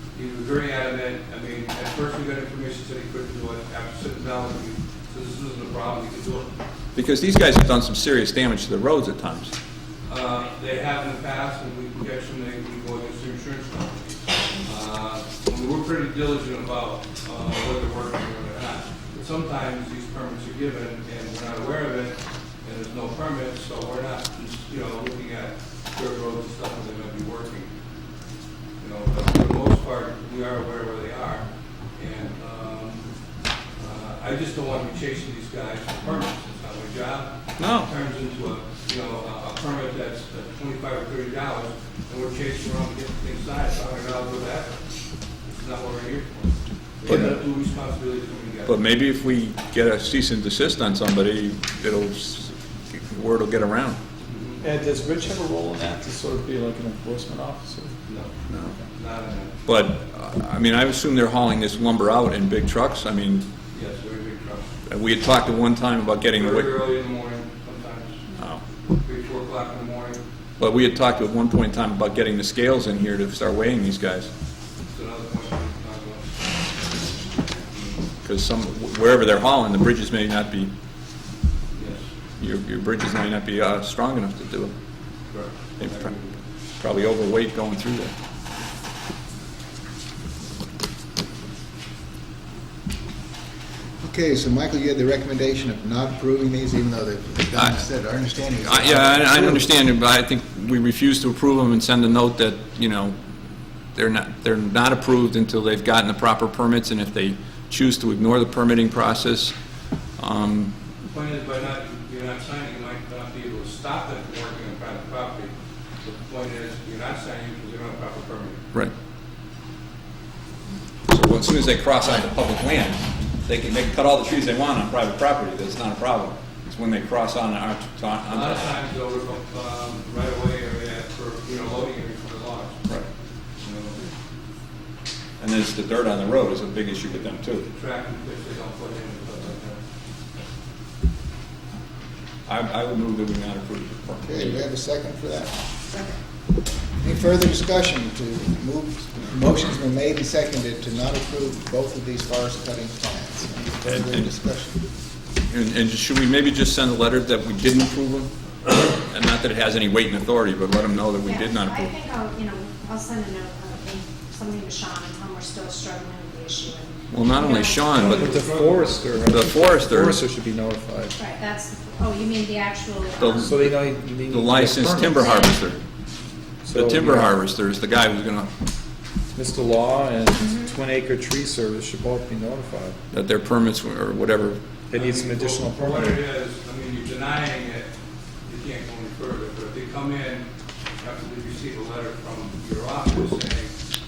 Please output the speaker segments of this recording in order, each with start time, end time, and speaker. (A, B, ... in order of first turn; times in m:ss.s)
0:00.1-0:06.6 A
0:07.0-0:09.5 B
0:10.1-0:14.0 A
0:14.6-0:27.7 A
0:28.8-0:33.1 A
0:33.8-0:44.8 A
0:37.6-0:37.9 B
0:45.4-0:48.8 A
0:47.1-0:47.4 C
0:48.7-0:54.0 B
0:54.2-0:54.6 A
0:54.6-0:58.0 C
0:58.1-0:58.3 A
0:58.5-0:58.8 B
0:58.9-0:59.5 A
0:59.7-1:03.5 B
1:03.7-1:04.7 A
1:04.9-1:06.7 B
1:06.3-1:08.2 A
1:08.9-1:10.2 A
1:10.6-1:14.3 B
1:14.9-1:16.4 A
1:17.3-1:18.0 A
1:18.2-1:20.7 B
1:21.7-1:22.1 A
1:22.4-1:24.7 B
1:25.3-1:26.4 A
1:25.8-1:26.1 B
1:26.8-1:28.1 B
1:34.0-1:39.7 D
1:38.7-1:43.2 B
1:44.0-1:49.6 B
1:50.2-1:50.7 B
1:51.0-1:58.6 A
2:01.1-2:08.7 B
2:08.3-2:12.8 A
2:13.6-2:14.0 A
2:15.4-2:17.7 B
2:17.6-2:19.8 A
2:22.5-2:24.6 B
2:24.2-2:25.6 D
2:27.0-2:34.8 D
2:33.8-2:34.3 B
2:35.5-2:41.9 B
2:41.2-2:48.0 E
2:47.1-2:48.4 B
2:47.9-2:51.2 C
2:48.0-2:49.1 A
2:49.3-2:50.2 B
2:51.2-2:53.5 E
2:53.2-2:55.8 B
2:53.4-2:55.2 C
2:55.2-2:55.6 E
2:56.6-2:57.4 C
2:56.7-2:58.5 B
2:59.3-3:03.0 C
3:00.4-3:00.7 E
3:03.1-3:04.6 B
3:04.9-3:06.2 C
3:05.0-3:07.9 A
3:08.4-3:13.8 A